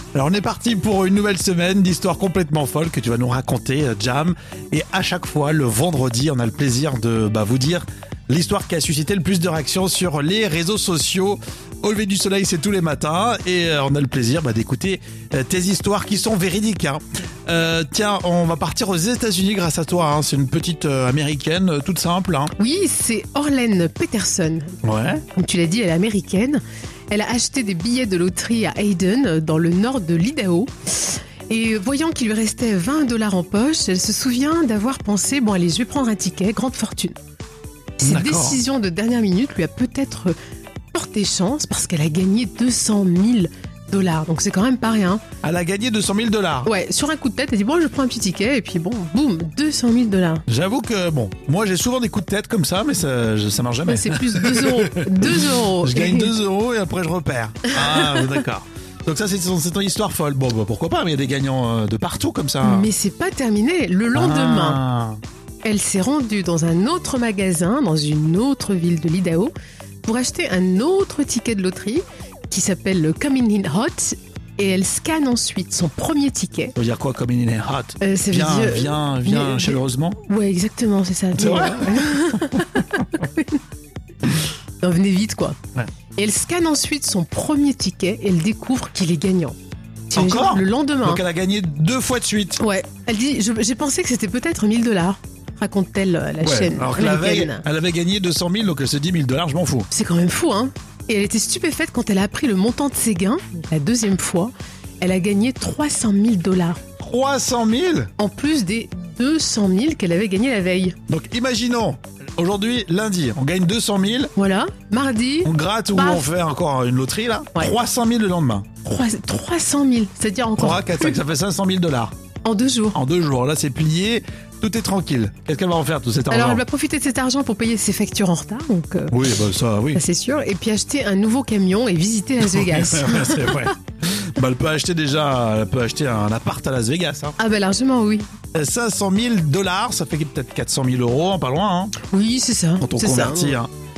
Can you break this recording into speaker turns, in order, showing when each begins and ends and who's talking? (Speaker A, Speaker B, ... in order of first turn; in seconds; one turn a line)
Speaker A: 0.1-22.5
Speaker B: 22.6-37.1
Speaker A: 24.8-25.2
Speaker B: 38.0-40.4
Speaker A: 38.0-38.6
Speaker B: 40.9-45.2
Speaker A: 45.4-46.7
Speaker B: 46.6-50.4
Speaker A: 50.5-62.9
Speaker B: 53.8-56.3
Speaker B: 57.7-58.3
Speaker B: 62.6-64.8
Speaker A: 64.1-65.2
Speaker B: 65.6-69.5
Speaker B: 70.0-76.8
Speaker A: 76.8-80.2
Speaker B: 78.0-83.6
Speaker A: 81.4-83.1
Speaker B: 84.8-85.6
Speaker B: 86.1-89.5
Speaker B: 90.1-91.2
Speaker A: 90.1-92.6
Speaker B: 92.6-97.6
Speaker A: 96.4-99.9
Speaker B: 99.9-106.8
Speaker A: 107.0-108.1
Speaker B: 108.2-111.0
Speaker A: 111.1-114.3
Speaker B: 114.3-116.3
Speaker A: 115.4-118.7
Speaker B: 118.8-121.2
Speaker A: 120.5-122.1
Speaker B: 122.4-123.0
Speaker A: 122.9-126.6
Speaker B: 126.3-129.2
Speaker A: 129.1-130.0
Speaker B: 129.9-133.7
Speaker A: 132.4-137.3
Speaker B: 137.4-138.3
Speaker A: 138.5-141.9
Speaker B: 142.1-143.6
Speaker A: 142.8-143.7